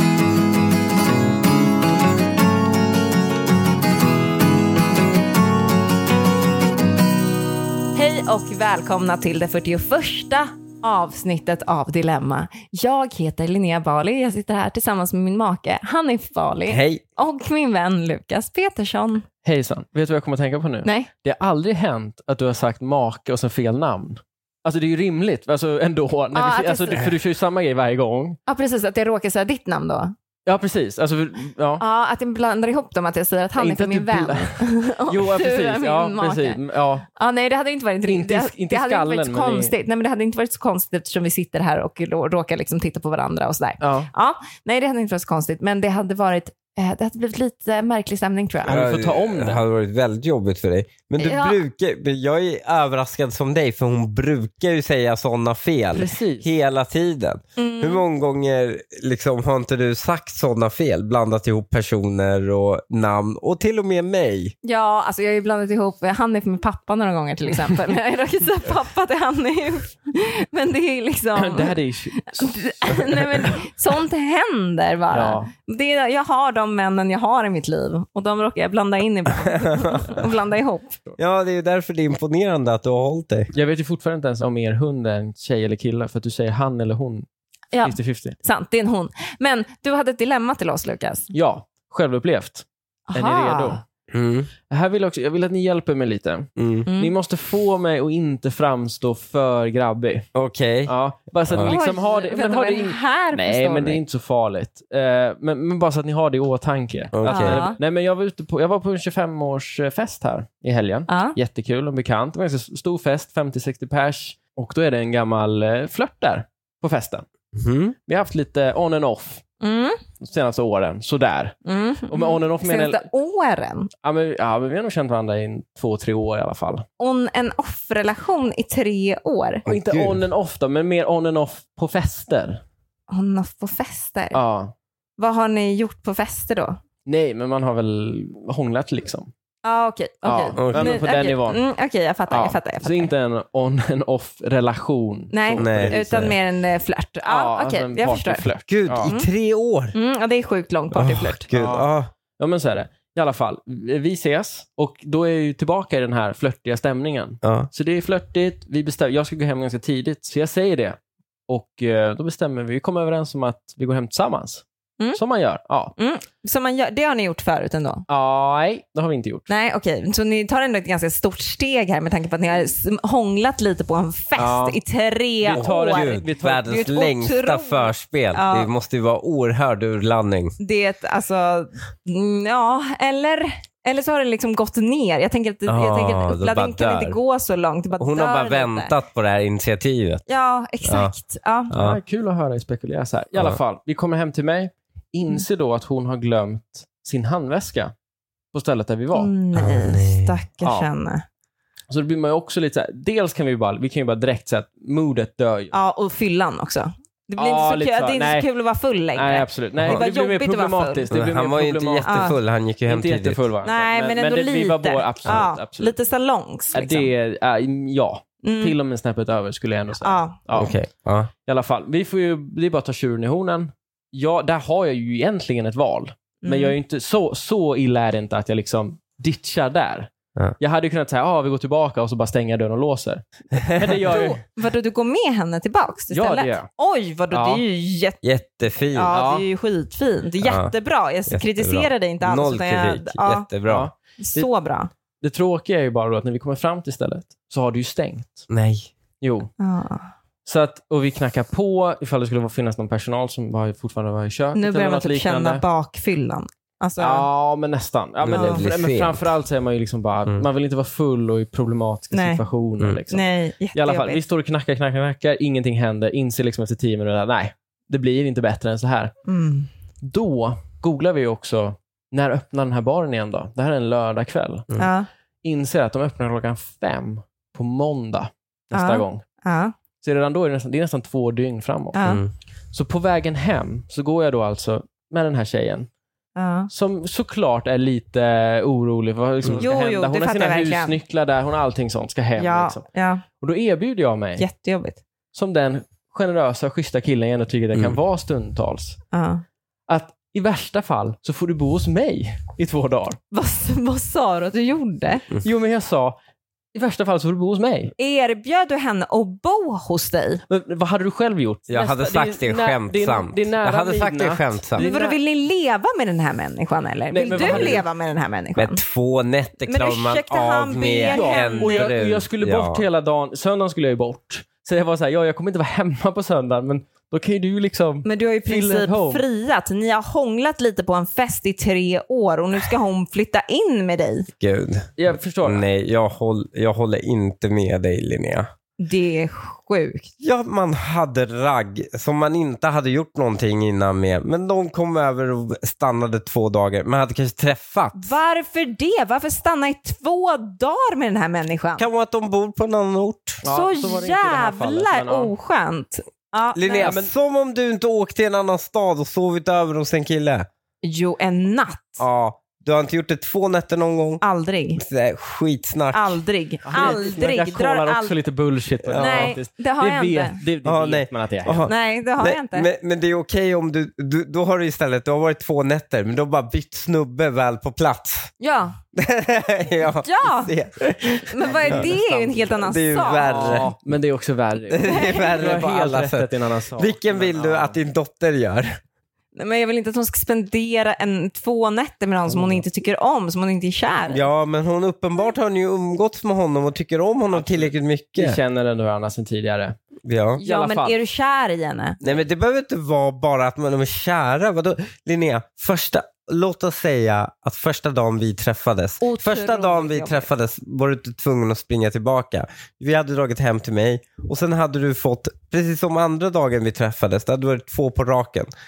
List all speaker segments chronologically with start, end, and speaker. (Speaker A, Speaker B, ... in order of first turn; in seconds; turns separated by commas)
Speaker A: 8.0-19.3, Speaker B: 16.7-17.0, Speaker C: 19.4-28.4, Speaker A: 20.8-21.1, Speaker A: 26.3-27.1, Speaker A: 28.5-30.1, Speaker C: 30.5-31.8, Speaker A: 31.8-36.6, Speaker C: 33.6-37.1, Speaker A: 37.1-48.8, Speaker C: 38.0-39.7, Speaker C: 43.8-44.1, Speaker C: 48.6-49.6, Speaker B: 48.7-64.5, Speaker A: 51.2-51.6, Speaker C: 55.9-56.5, Speaker A: 57.6-58.0, Speaker A: 64.6-81.0, Speaker C: 71.4-73.2, Speaker C: 75.1-75.5, Speaker B: 81.2-83.5, Speaker C: 83.5-87.3, Speaker A: 87.7-91.3, Speaker C: 87.8-88.4, Speaker C: 91.3-93.8, Speaker A: 93.1-93.8, Speaker B: 94.1-94.5, Speaker C: 94.7-100.3, Speaker B: 96.6-96.9, Speaker A: 96.9-97.1, Speaker B: 100.3-100.9, Speaker C: 100.9-117.3, Speaker B: 101.5-101.8, Speaker A: 101.7-104.0, Speaker B: 107.1-107.7, Speaker A: 107.2-107.8, Speaker A: 111.1-111.4, Speaker B: 117.5-118.0, Speaker C: 118.1-119.4, Speaker A: 119.6-120.0, Speaker C: 120.2-121.6, Speaker A: 121.7-123.9, Speaker C: 122.1-123.1, Speaker C: 124.0-126.8, Speaker A: 127.0-129.7, Speaker B: 129.7-130.2, Speaker C: 129.7-132.6, Speaker A: 133.1-134.4, Speaker C: 134.3-134.7, Speaker A: 135.2-136.8, Speaker C: 137.1-139.3, Speaker A: 139.6-143.1, Speaker C: 140.2-141.6, Speaker B: 140.6-141.0, Speaker C: 142.3-146.0, Speaker A: 145.3-148.5, Speaker B: 145.6-146.3, Speaker C: 147.3-149.1, Speaker B: 148.7-149.9, Speaker A: 149.0-149.3, Speaker A: 149.9-151.5, Speaker B: 150.9-152.1, Speaker C: 151.5-164.6, Speaker B: 157.4-157.7, Speaker C: 165.2-165.9, Speaker A: 166.0-168.1, Speaker C: 168.1-169.5, Speaker A: 169.5-178.7, Speaker C: 174.4-174.8, Speaker C: 175.4-176.7, Speaker B: 175.5-180.6, Speaker A: 180.6-188.9, Speaker B: 185.7-187.2, Speaker B: 188.0-190.2, Speaker A: 190.3-191.8, Speaker B: 190.8-191.1, Speaker B: 191.7-192.0, Speaker C: 191.7-197.9, Speaker C: 198.5-199.3, Speaker A: 199.1-201.2, Speaker B: 199.6-200.3, Speaker C: 200.6-200.9, Speaker C: 201.9-205.8, Speaker A: 205.7-211.1, Speaker C: 207.4-208.5, Speaker C: 209.1-212.3, Speaker B: 211.1-213.4, Speaker A: 212.1-212.3, Speaker C: 212.9-216.0, Speaker A: 213.6-217.1, Speaker C: 216.7-220.7, Speaker A: 218.4-218.8, Speaker A: 220.0-220.4, Speaker B: 220.6-221.3, Speaker C: 221.4-234.4, Speaker A: 226.4-226.8, Speaker B: 233.6-233.9, Speaker A: 234.1-238.2, Speaker C: 236.1-236.7, Speaker C: 237.3-237.6, Speaker B: 238.2-239.1, Speaker A: 238.9-243.5, Speaker C: 239.1-239.5, Speaker B: 240.4-240.7, Speaker B: 241.3-243.9, Speaker C: 243.7-244.5, Speaker A: 244.2-244.9, Speaker C: 245.2-248.5, Speaker B: 248.5-248.9, Speaker C: 249.2-249.5, Speaker A: 249.6-250.1, Speaker C: 250.5-255.6, Speaker A: 254.6-257.3, Speaker C: 257.0-269.1, Speaker B: 258.2-259.2, Speaker A: 258.3-258.6, Speaker A: 262.1-262.4, Speaker A: 263.1-264.2, Speaker A: 269.3-269.7, Speaker C: 270.0-274.7, Speaker A: 274.8-275.1, Speaker C: 275.4-279.2, Speaker A: 278.7-279.7, Speaker C: 280.0-282.0, Speaker A: 281.9-282.2, Speaker C: 282.7-285.9, Speaker A: 286.4-286.7, Speaker C: 286.7-292.8, Speaker A: 289.6-291.0, Speaker A: 292.4-293.2, Speaker C: 293.4-294.4, Speaker A: 294.4-295.0, Speaker C: 295.3-299.0, Speaker A: 299.1-299.4, Speaker C: 299.9-303.2, Speaker A: 303.3-305.3, Speaker C: 305.4-306.1, Speaker C: 306.7-307.9, Speaker A: 308.0-310.4, Speaker C: 310.5-315.2, Speaker B: 311.7-314.8, Speaker A: 314.8-318.8, Speaker C: 317.1-317.8, Speaker B: 317.3-317.8, Speaker B: 318.6-322.9, Speaker A: 319.6-321.9, Speaker C: 321.1-329.2, Speaker A: 328.1-334.3, Speaker B: 334.4-334.9, Speaker C: 335.0-335.6, Speaker B: 335.4-338.5, Speaker A: 338.8-340.1, Speaker B: 340.2-348.1, Speaker A: 347.9-351.9, Speaker B: 351.8-353.4, Speaker C: 353.4-355.3, Speaker A: 353.5-357.0, Speaker B: 356.6-360.5, Speaker C: 356.8-357.1, Speaker A: 360.8-362.1, Speaker B: 362.0-364.2, Speaker A: 364.2-364.8, Speaker B: 364.8-366.2, Speaker A: 365.9-368.1, Speaker C: 366.7-371.7, Speaker B: 366.7-367.0, Speaker B: 368.8-369.4, Speaker A: 368.9-370.4, Speaker B: 370.6-378.3, Speaker A: 371.6-372.7, Speaker A: 378.4-378.8, Speaker B: 378.9-383.7, Speaker A: 380.0-380.5, Speaker A: 381.2-383.6, Speaker C: 381.4-382.4, Speaker C: 383.2-387.8, Speaker B: 384.7-388.8, Speaker A: 384.8-385.3, Speaker A: 389.4-394.3, Speaker C: 392.3-392.6, Speaker B: 394.1-398.4, Speaker C: 397.3-399.8, Speaker B: 400.1-400.4, Speaker A: 400.4-402.0, Speaker C: 400.4-401.0, Speaker B: 402.0-418.5, Speaker A: 409.0-410.3